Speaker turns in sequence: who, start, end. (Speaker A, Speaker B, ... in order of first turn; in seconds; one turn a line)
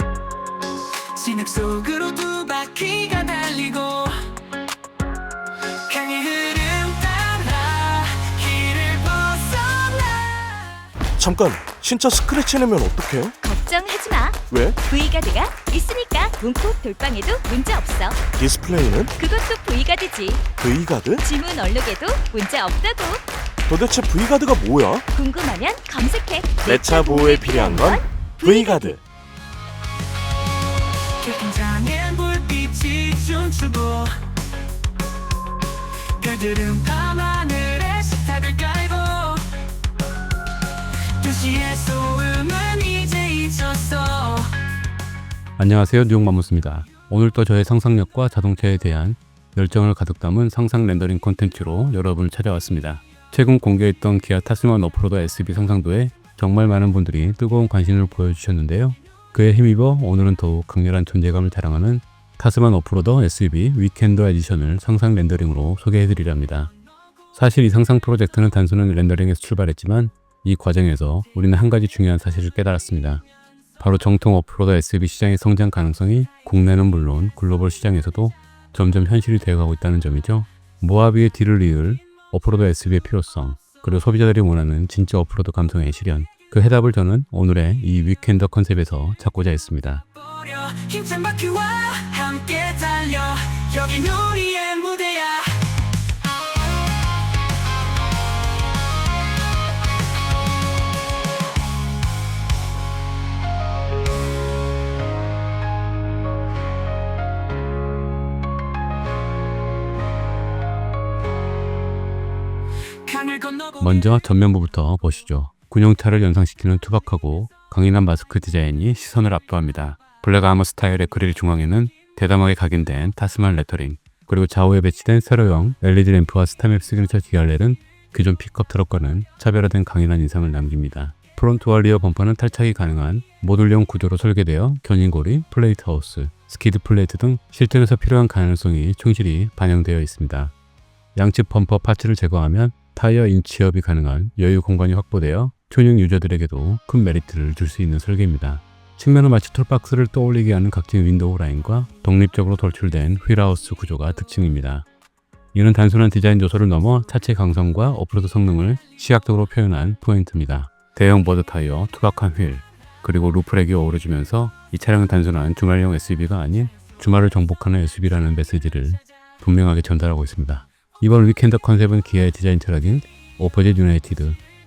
Speaker A: 1.1-4.3
Speaker A: 5.7-10.8
Speaker B: 11.2-13.3
Speaker C: 13.4-18.2
Speaker B: 14.5-14.8
Speaker B: 18.3-19.1
Speaker C: 19.2-20.4
Speaker B: 20.6-21.2
Speaker C: 21.2-23.2
Speaker B: 23.7-25.0
Speaker C: 25.1-29.0
Speaker B: 26.6-29.0
Speaker A: 31.2-34.2
Speaker A: 36.0-39.5
Speaker A: 41.2-44.6
Speaker D: 45.6-66.7
Speaker D: 67.3-73.2
Speaker D: 73.8-90.0
Speaker A: 90.1-95.7
Speaker A: 113.1-113.8
Speaker D: 113.8-140.5
Speaker D: 141.2-154.9
Speaker D: 155.5-174.4